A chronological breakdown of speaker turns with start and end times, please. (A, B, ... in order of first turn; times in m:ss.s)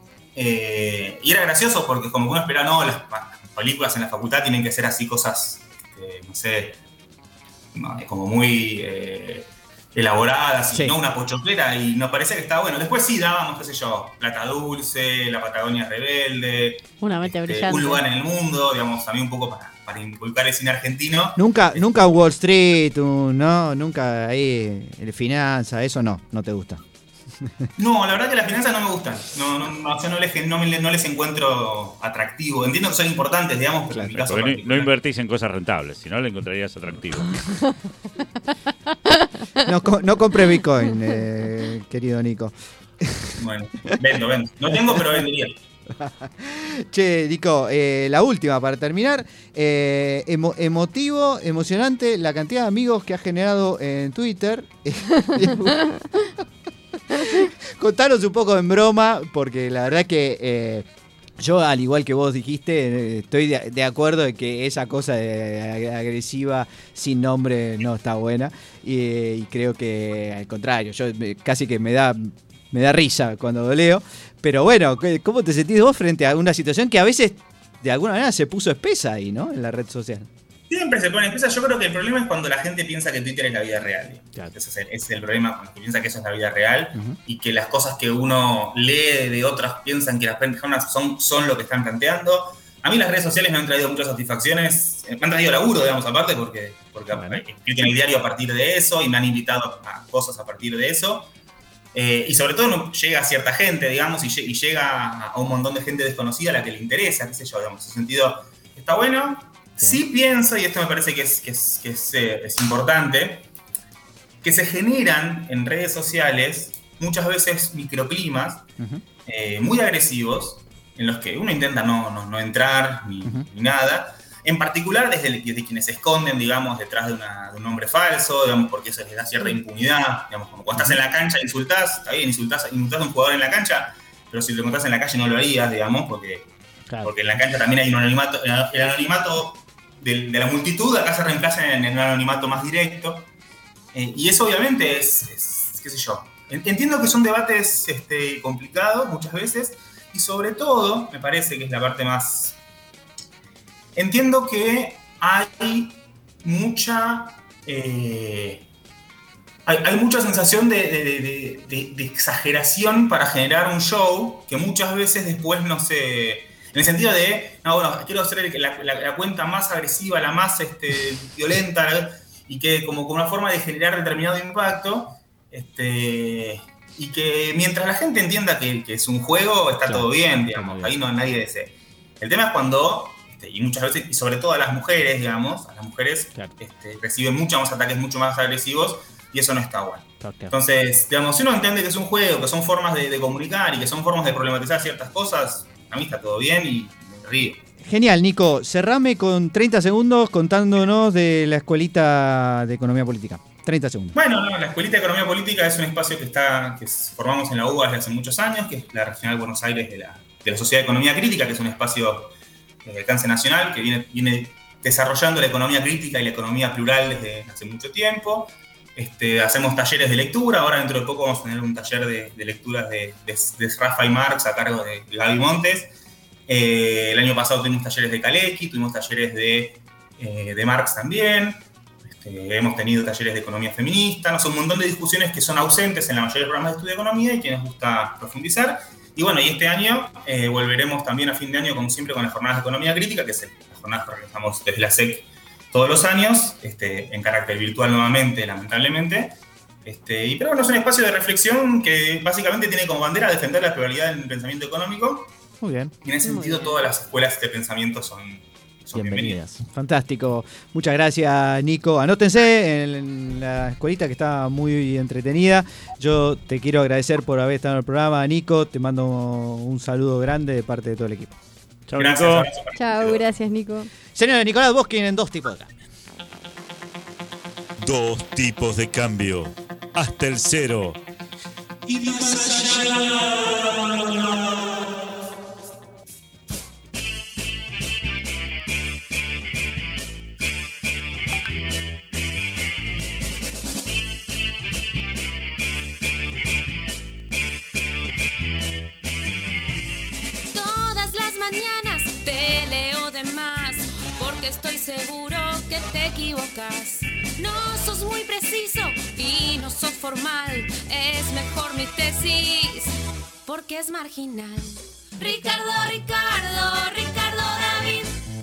0:00.3-0:06.8 A
0:07.7-0:21.9 A
0:10.7-0:11.0 B
0:17.0-0:18.0 C
0:21.4-0:26.8 B
0:27.4-0:27.7 B
0:27.8-0:34.9 A
0:33.9-0:34.2 B
0:34.1-0:37.4 D
0:39.6-0:43.4 B
0:43.4-0:45.6 A
0:44.9-0:45.2 B
0:45.9-0:56.4 B
0:57.1-1:00.9 B
1:01.4-1:20.3 B
1:20.7-1:41.3 A
1:37.1-1:37.4 B
1:41.9-1:53.5 A
1:54.4-1:58.7 A
1:59.2-2:16.5 A
2:10.7-2:11.0 B
2:17.0-2:23.3 A
2:23.9-2:32.6 A
2:34.0-2:38.7 A
2:39.6-3:17.6 A
2:59.8-3:00.9 B
3:10.2-3:10.5 B
3:17.8-3:24.1 B
3:24.1-3:32.3 A
3:32.8-3:45.9 A
3:46.5-4:15.3 A
4:15.6-4:15.9 B
4:16.0-4:19.4 A
4:16.2-4:16.8 C
4:18.9-4:31.4 B
4:31.9-4:32.5 D
4:32.0-4:33.2 A
4:32.7-4:33.9 C
4:34.1-4:35.7 B
4:37.8-4:41.0 D
4:41.8-4:44.6 D
5:00.5-5:12.9 E
5:13.4-5:18.2 E